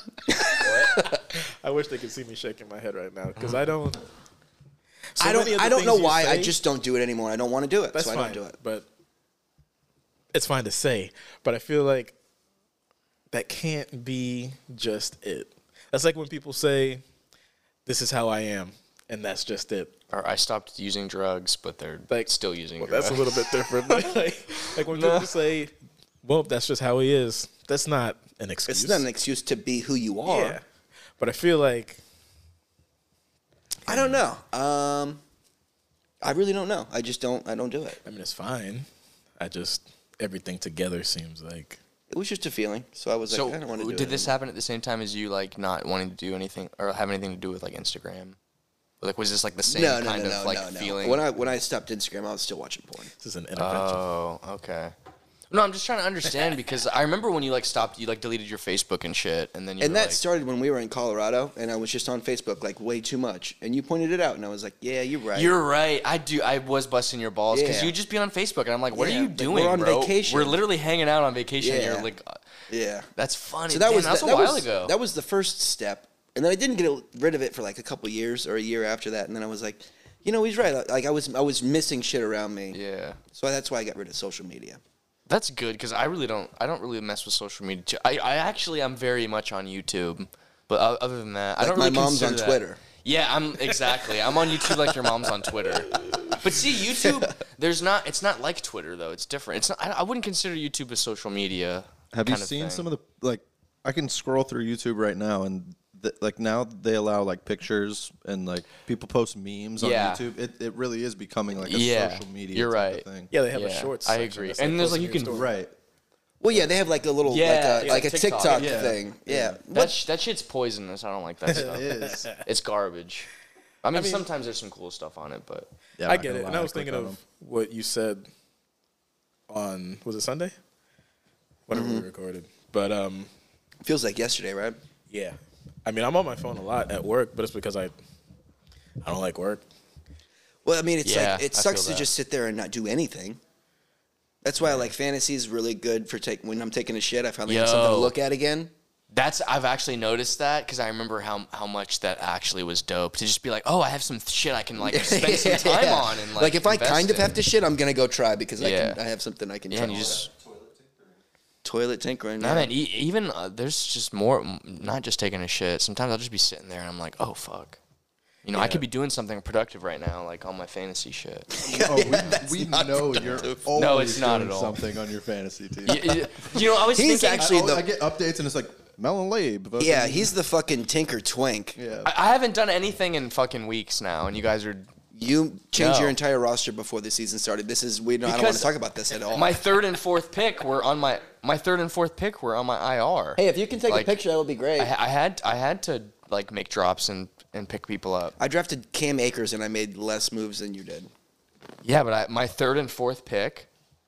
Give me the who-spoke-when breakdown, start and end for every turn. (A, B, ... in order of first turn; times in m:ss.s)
0:00.3-0:01.2 A
0:00.6-0:00.9 B
0:00.9-0:04.0 C
0:05.1-0:06.6 C
0:05.2-0:08.5 A
0:07.9-0:08.8 C
0:10.3-0:12.1 C
0:13.3-0:17.0 C
0:17.8-0:19.9 C
0:20.1-0:25.3 B
0:22.1-0:29.0 C
0:28.7-0:30.6 A
0:30.2-0:30.6 C
0:31.2-0:32.0 C
0:33.9-0:35.2 A
0:33.9-0:34.2 C
0:36.2-0:38.0 A
0:38.0-0:38.8 C
0:39.4-0:41.8 C
0:42.1-0:44.3 A
0:43.3-0:48.4 B
0:49.0-0:51.3 B
0:49.6-0:53.1 A
0:53.2-0:54.0 C
0:53.6-0:54.9 B
0:55.5-1:00.2 B
0:59.8-1:05.6 A
1:05.3-1:12.4 B
1:07.5-1:08.0 A
1:08.9-1:10.6 A
1:11.6-1:12.1 A
1:12.7-1:13.1 A
1:13.1-1:14.9 B
1:13.7-1:22.8 A
1:22.7-1:23.2 B
1:23.3-1:24.8 A
1:25.3-1:42.9 B
1:31.6-1:32.8 A
1:36.9-1:37.3 A
1:42.1-1:53.3 D
1:49.8-1:50.2 B
1:51.6-1:55.4 B
1:53.3-1:55.5 C
1:55.3-1:55.7 D
1:56.4-2:00.0 A
1:57.2-1:58.8 B
1:58.5-1:59.6 D
1:59.7-2:03.3 B
2:01.5-2:02.3 D
2:01.5-2:02.4 C
2:03.8-2:05.7 B
2:03.9-2:04.2 C
2:06.0-2:07.2 D
2:06.0-2:08.3 C
2:09.5-2:10.5 C
2:11.7-2:13.3 C
2:11.7-2:12.0 A
2:13.8-2:14.8 A
2:15.1-2:17.9 C
2:19.0-2:19.6 C
2:20.6-2:23.4 A
2:21.0-2:22.1 B
2:24.4-2:28.7 A
2:24.6-2:24.9 C
2:27.5-2:28.2 B
2:29.1-2:37.4 B
2:34.8-2:40.2 A
2:38.6-2:39.0 B
2:39.7-2:40.3 B
2:39.9-2:41.2 D
2:41.6-2:42.7 A
2:42.4-2:47.8 B
2:48.4-2:51.6 B
2:48.5-2:48.8 C
2:51.5-2:53.6 A
2:51.6-2:56.3 D
2:53.3-2:54.8 B
2:55.8-2:57.7 B
2:56.5-2:57.8 A
2:57.3-3:00.3 D
2:59.8-3:01.8 A
3:01.8-3:02.1 D
3:02.0-3:04.9 B
3:05.1-3:09.5 A
3:05.7-3:06.2 B
3:08.2-3:08.7 B
3:09.3-3:14.2 B
3:13.4-3:14.9 A
3:14.8-3:18.3 B
3:18.4-3:21.1 A
3:21.8-3:23.7 B